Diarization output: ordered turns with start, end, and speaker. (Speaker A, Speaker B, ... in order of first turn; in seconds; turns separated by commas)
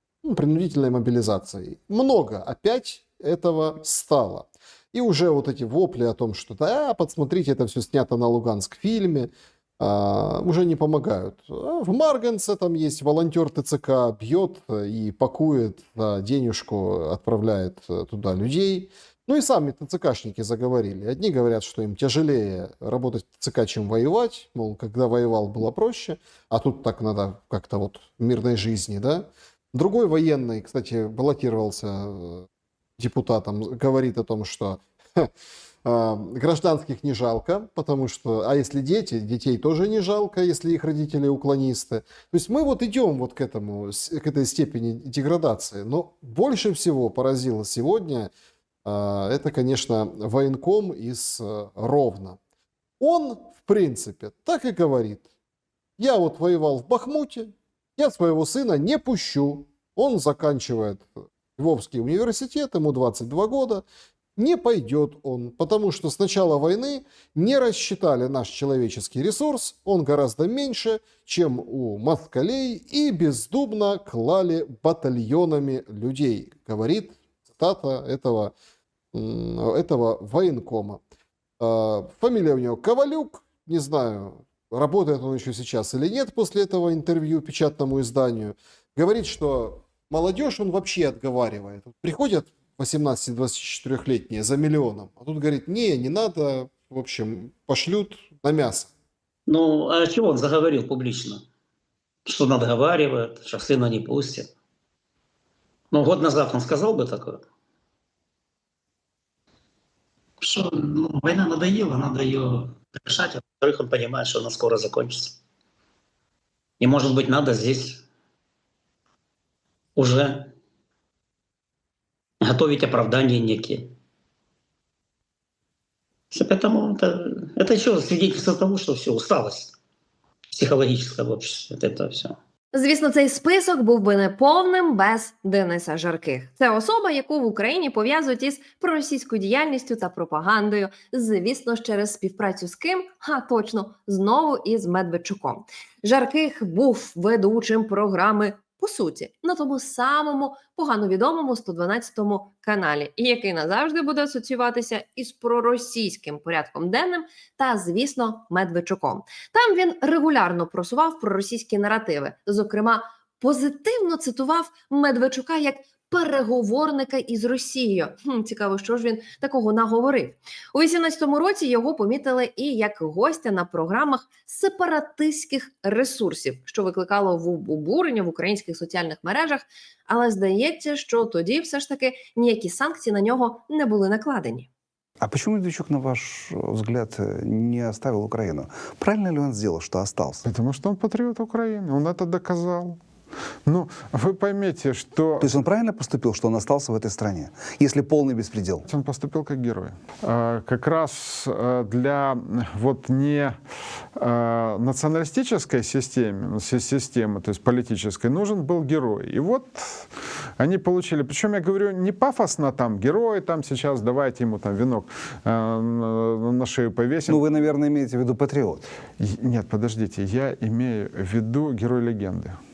Speaker A: 0.2-32.4, Speaker A: 33.0-35.3, Speaker A: 35.8-48.3, Speaker A: 48.8-52.4, Speaker A: 53.0-55.3, Speaker A: 56.0-63.8, Speaker A: 64.4-78.5, Speaker A: 79.1-81.0, Speaker A: 81.6-98.9, Speaker B: 99.5-101.4, Speaker B: 102.2-104.5, Speaker B: 105.9-107.4, Speaker B: 110.4-115.4, Speaker B: 116.8-118.0, Speaker B: 120.0-120.5, Speaker B: 122.4-123.9, Speaker B: 126.3-129.7, Speaker B: 130.5-132.4, Speaker C: 132.7-184.7, Speaker D: 185.2-190.4, Speaker E: 190.4-193.0, Speaker E: 193.7-195.5, Speaker D: 195.4-198.8, Speaker E: 198.9-203.6, Speaker E: 204.2-217.4, Speaker D: 217.3-218.8, Speaker E: 219.2-222.6